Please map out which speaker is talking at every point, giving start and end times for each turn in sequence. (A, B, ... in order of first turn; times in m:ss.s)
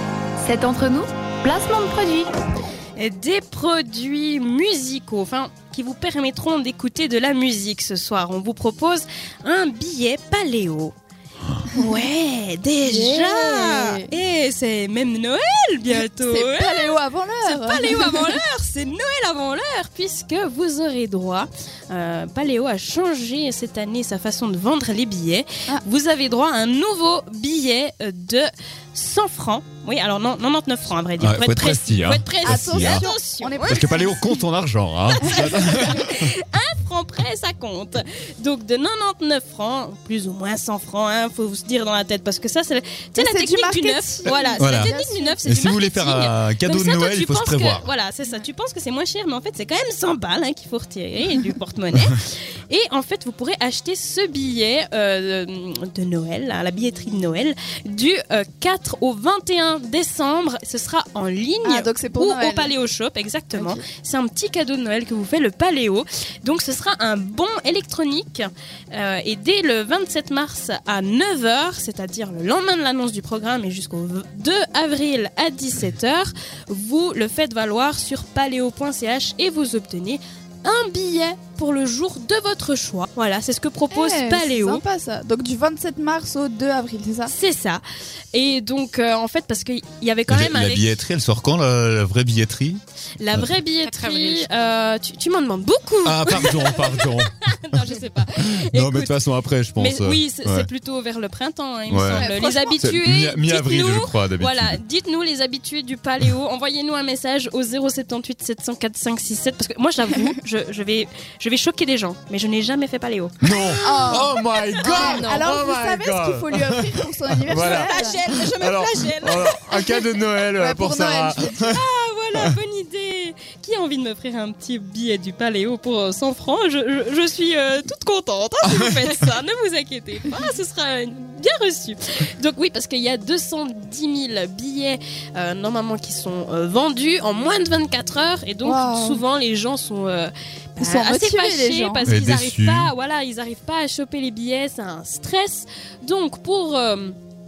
0:00.4-0:02.3 A
0:03.0-0:10.9 B
0:11.7-0:34.1 B
0:12.8-0:14.1 C
0:15.9-0:18.3 C
0:31.2-0:33.0 D
0:32.4-0:34.3 C
0:33.6-0:36.3 D
0:35.1-1:24.8 B
0:43.2-0:45.4 C
0:44.2-0:47.9 D
1:01.6-1:02.7 C
1:03.5-1:03.8 C
1:23.9-1:27.3 C
1:27.2-1:31.0 B
1:30.3-1:32.8 D
1:33.2-1:39.2 B
1:33.9-1:34.4 A
1:36.0-1:37.3 D
1:38.3-1:40.7 D
1:39.8-1:55.5 B
1:41.9-1:44.8 D
1:42.1-1:42.8 C
1:53.4-2:01.8 D
1:53.8-1:58.2 C
1:57.5-2:00.0 B
2:00.5-2:01.6 C
2:01.6-2:27.2 B
2:08.6-2:09.1 D
2:18.6-2:19.2 C
2:20.8-2:22.1 C
2:22.0-2:22.9 D